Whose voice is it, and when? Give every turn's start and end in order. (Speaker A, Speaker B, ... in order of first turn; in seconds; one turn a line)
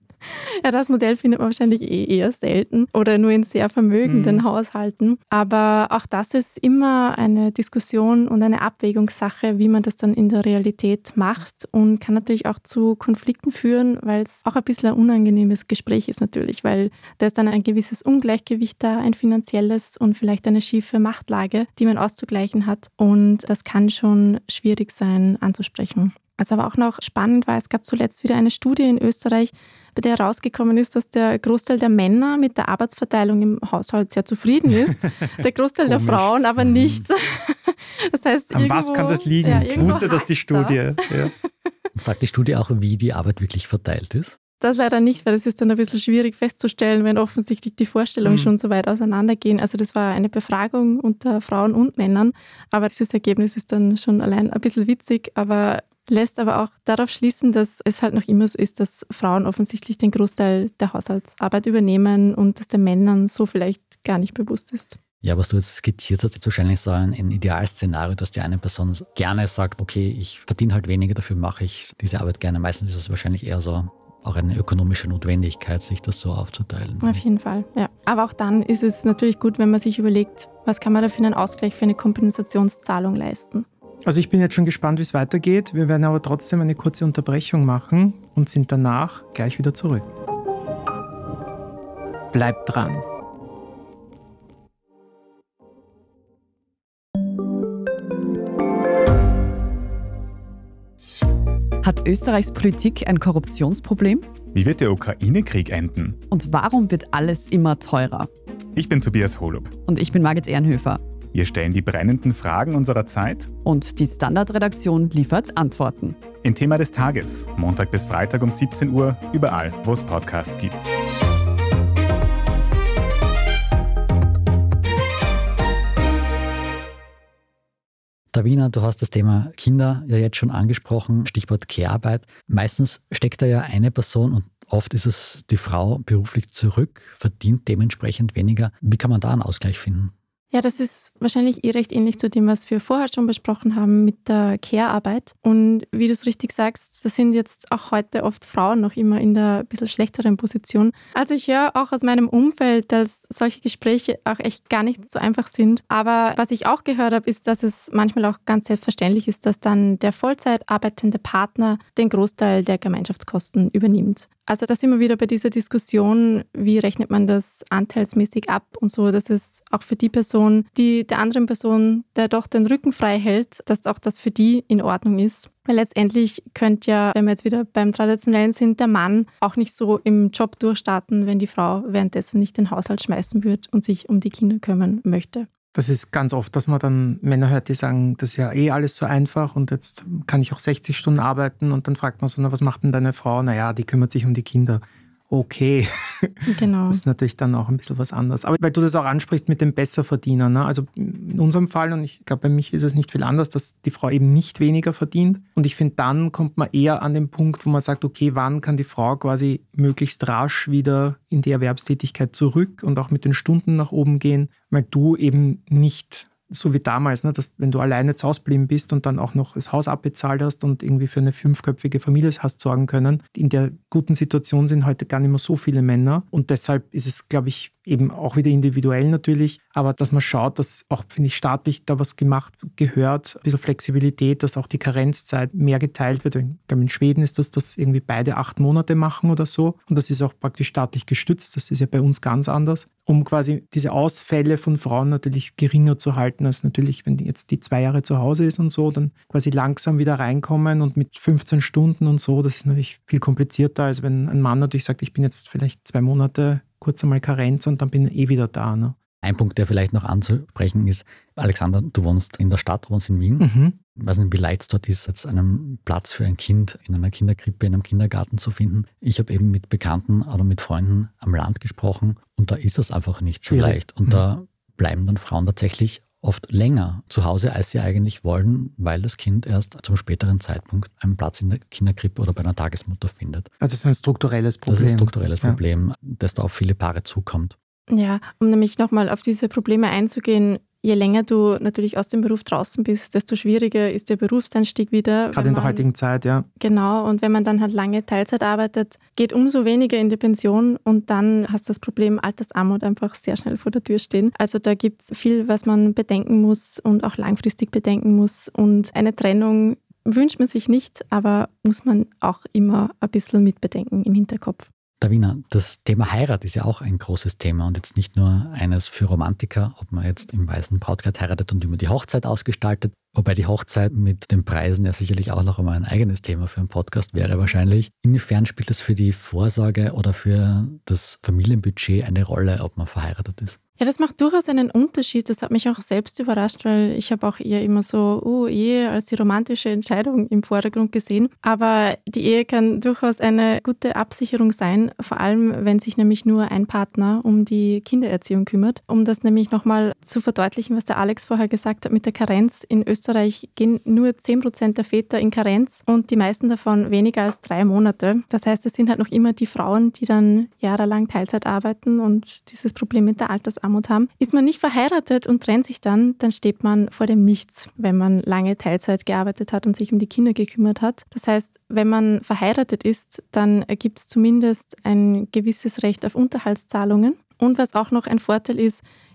Speaker A: 0.2-40.9
Speaker B: 4.0-4.4
Speaker C: 35.9-37.0
Speaker B: 38.5-41.3
Speaker C: 42.0-44.4
Speaker A: 44.6-65.0
Speaker B: 48.2-48.5
Speaker C: 65.2-77.2
Speaker A: 77.0-83.7
Speaker B: 84.0-90.0
Speaker B: 92.3-93.0
Speaker D: 101.8-104.3
Speaker E: 104.5-106.2
Speaker D: 106.3-108.3
Speaker E: 108.7-109.8
Speaker D: 109.8-111.0
Speaker E: 111.3-113.6
Speaker D: 113.6-116.2
Speaker E: 116.4-120.8
Speaker C: 128.3-140.1
Speaker A: 140.5-185.5
Speaker B: 185.7-259.0
Speaker A: 196.5-197.0
Speaker C: 259.2-283.5
Speaker B: 263.4-263.8
Speaker B: 273.5-274.2
Speaker B: 283.6-285.6
Speaker C: 284.7-287.6
Speaker A: 287.9-295.9
Speaker B: 295.3-296.5
Speaker A: 296.6-314.7
Speaker C: 315.0-333.6
Speaker A: 333.8-378.8